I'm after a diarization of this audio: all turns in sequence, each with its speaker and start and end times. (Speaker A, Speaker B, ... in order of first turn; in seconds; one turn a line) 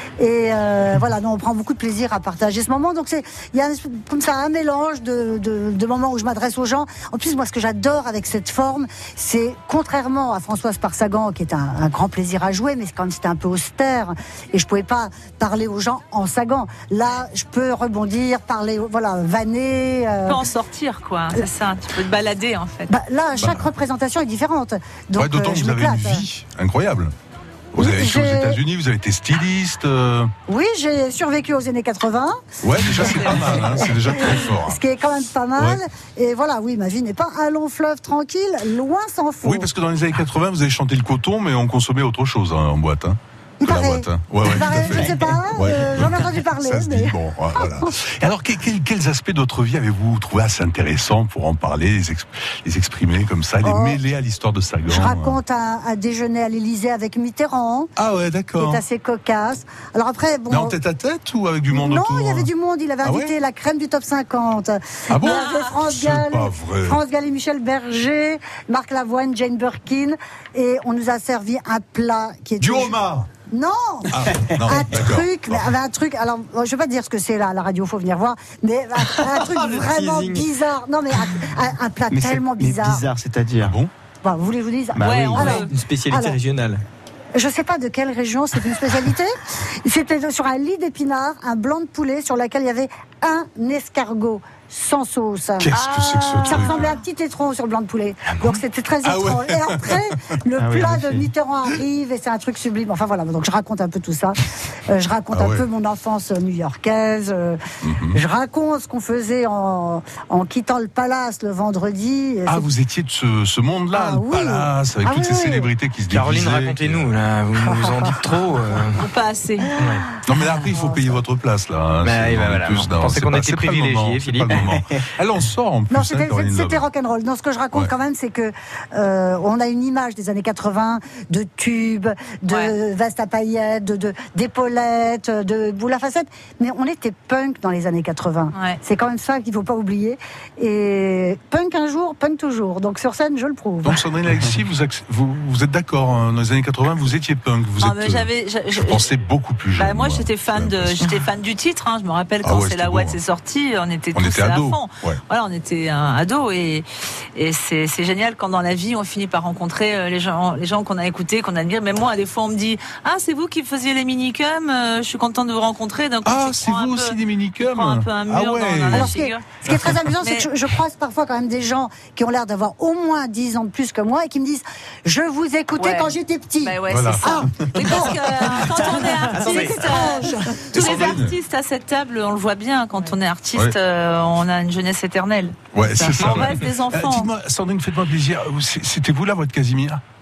Speaker A: 0.2-20.4
Speaker B: 20.3-22.9
Speaker A: 22.9-26.2
Speaker C: 23.4-23.7
Speaker C: 25.2-27.1
Speaker C: 27.7-30.3
Speaker A: 27.8-28.6
Speaker A: 30.5-39.7
Speaker C: 32.6-34.8
Speaker C: 39.4-55.4
Speaker A: 43.6-47.9
Speaker A: 53.6-54.0
Speaker A: 54.9-57.9
Speaker C: 58.0-58.8
Speaker A: 58.6-60.8
Speaker C: 60.5-62.5
Speaker A: 61.7-73.0
Speaker C: 63.0-63.3
Speaker C: 65.1-67.0
Speaker B: 65.2-65.5
Speaker C: 72.6-73.3
Speaker A: 73.5-83.0
Speaker C: 74.1-75.7
Speaker D: 79.6-80.4
Speaker E: 82.1-83.8
Speaker C: 83.6-83.9
Speaker A: 84.2-86.4
Speaker E: 85.0-85.6
Speaker B: 85.0-85.7
Speaker D: 85.3-86.8
Speaker A: 87.3-95.7
Speaker C: 95.6-96.9
Speaker B: 95.7-96.8
Speaker A: 96.4-107.6
Speaker C: 99.0-100.0
Speaker E: 100.6-101.3
Speaker C: 105.3-105.6
Speaker C: 107.8-108.2
Speaker A: 108.1-112.7
Speaker C: 112.5-117.1
Speaker A: 113.9-115.7
Speaker D: 116.1-119.0
Speaker B: 119.0-119.7
Speaker D: 119.8-120.1
Speaker C: 120.2-126.8
Speaker D: 122.0-124.8
Speaker A: 125.9-144.0
Speaker B: 138.5-138.8
Speaker C: 143.8-151.1
Speaker B: 147.8-149.1
Speaker B: 149.8-169.6
Speaker C: 152.4-153.2
Speaker C: 154.2-155.2
Speaker C: 166.2-169.1
Speaker A: 168.9-178.2
Speaker C: 169.7-170.0
Speaker B: 170.2-170.5
Speaker B: 175.8-187.3
Speaker C: 176.9-178.9
Speaker A: 178.7-181.0
Speaker C: 179.9-181.4
Speaker C: 185.7-190.0